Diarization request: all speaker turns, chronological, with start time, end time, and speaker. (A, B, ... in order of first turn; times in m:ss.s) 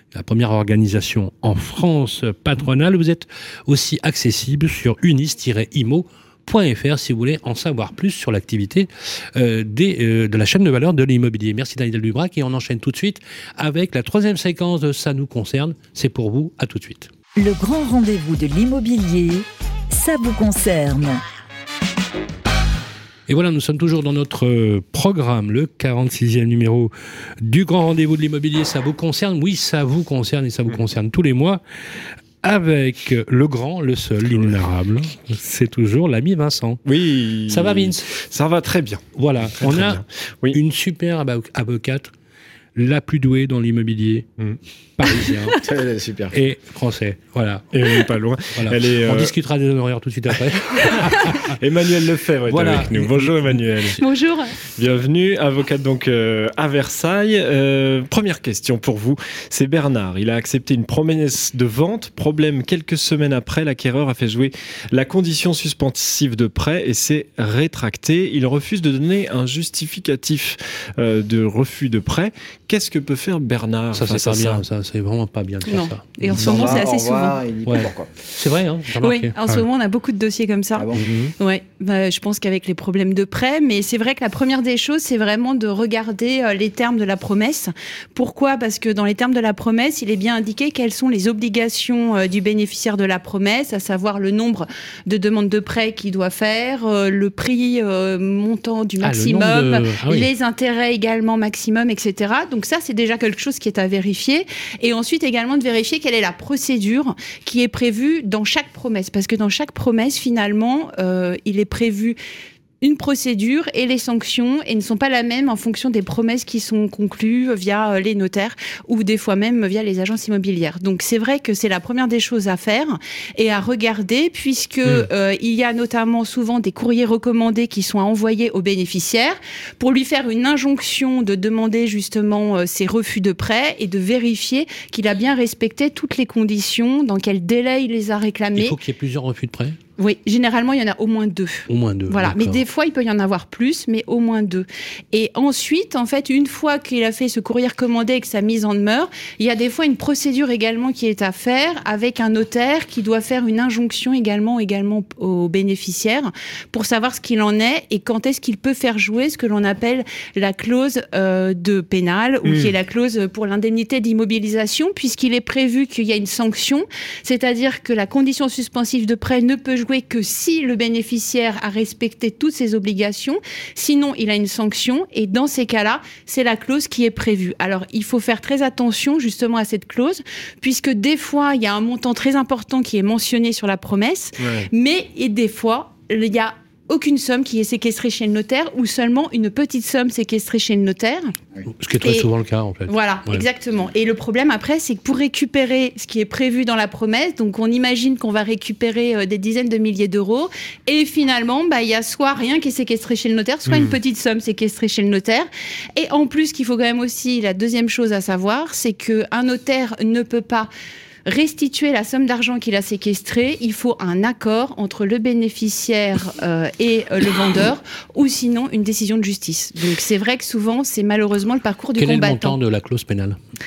0:00.1-0:17.1 A
0:17.4-0:21.2 B
0:23.3-0:31.6 A
0:32.4-0:36.8 A
0:36.8-0:40.6 C
0:37.5-0:38.2 A
0:39.2-0:42.1 A
0:42.7-0:44.3 A
0:45.0-0:45.5 A
0:45.6-0:46.4 D
0:46.3-0:47.8 A
0:47.7-0:49.3 C
0:48.5-0:51.5 A
0:50.7-0:54.0 C
0:52.5-0:53.8 A
0:54.0-0:54.6 E
0:54.6-1:14.6 C
1:13.9-1:16.8 A
1:15.6-1:17.4 E
1:16.3-1:18.1 D
1:17.6-1:19.6 A
1:19.0-1:52.2 E
1:20.8-1:21.0 D
1:21.0-1:21.3 A
1:39.0-1:40.3 A
1:52.8-2:18.8 E
2:18.5-2:19.8 A
2:20.0-3:11.3 E
2:21.7-2:22.6 A
2:42.4-2:42.7 C
3:04.4-3:04.7 C
3:11.8-3:13.4 A
3:12.0-3:12.3 E
3:12.9-3:30.7 E
3:23.7-3:24.0 C
3:31.2-3:42.6 E
3:42.0-3:43.4 A